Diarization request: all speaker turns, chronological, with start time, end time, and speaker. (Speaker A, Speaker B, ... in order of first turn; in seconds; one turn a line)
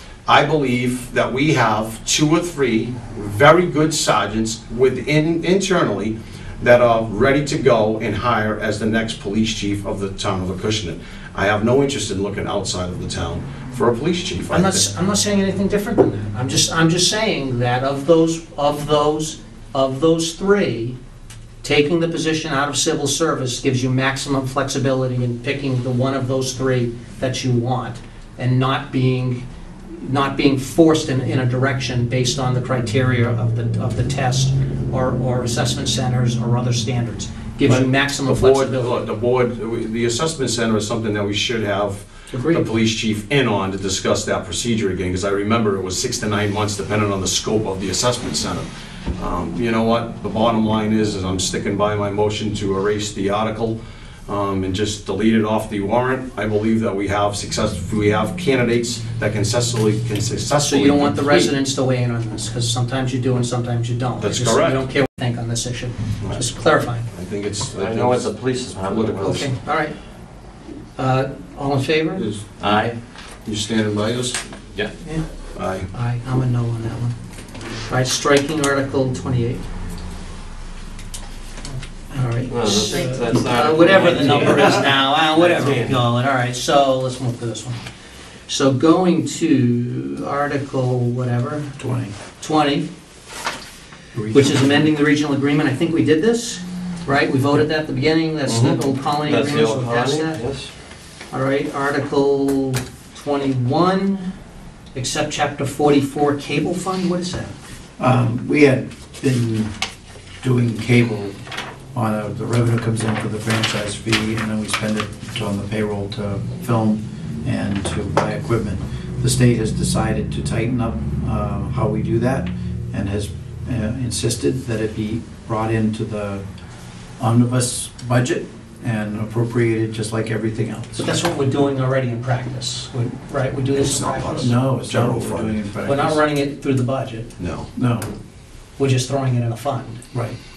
Speaker A: 0.2-14.8
Speaker B: 14.5-21.0
Speaker B: 21.6-29.4
Speaker B: 29.9-39.0
Speaker A: 37.7-61.5
Speaker B: 42.3-42.7
Speaker B: 60.6-67.1
Speaker A: 64.2-64.8
Speaker A: 67.1-69.4
Speaker C: 67.8-69.5
Speaker B: 69.2-69.9
Speaker B: 71.0-72.2
Speaker A: 72.2-72.4
Speaker C: 72.6-73.0
Speaker A: 73.4-74.4
Speaker A: 75.5-75.9
Speaker B: 75.9-77.1
Speaker B: 77.8-79.6
Speaker B: 82.1-87.8
Speaker C: 82.5-86.0
Speaker B: 88.5-91.7
Speaker D: 91.8-92.1
Speaker B: 92.4-92.9
Speaker D: 94.1-94.9
Speaker B: 94.3-100.4
Speaker C: 98.5-100.7
Speaker B: 101.3-104.3
Speaker B: 104.9-107.5
Speaker D: 108.0-109.7
Speaker D: 110.4-111.3
Speaker D: 111.9-126.4
Speaker D: 127.2-131.1
Speaker B: 130.9-134.5
Speaker A: 133.7-135.6
Speaker D: 134.3-136.2
Speaker B: 135.8-137.3
Speaker A: 137.4-137.7
Speaker D: 137.7-138.1
Speaker B: 138.8-140.0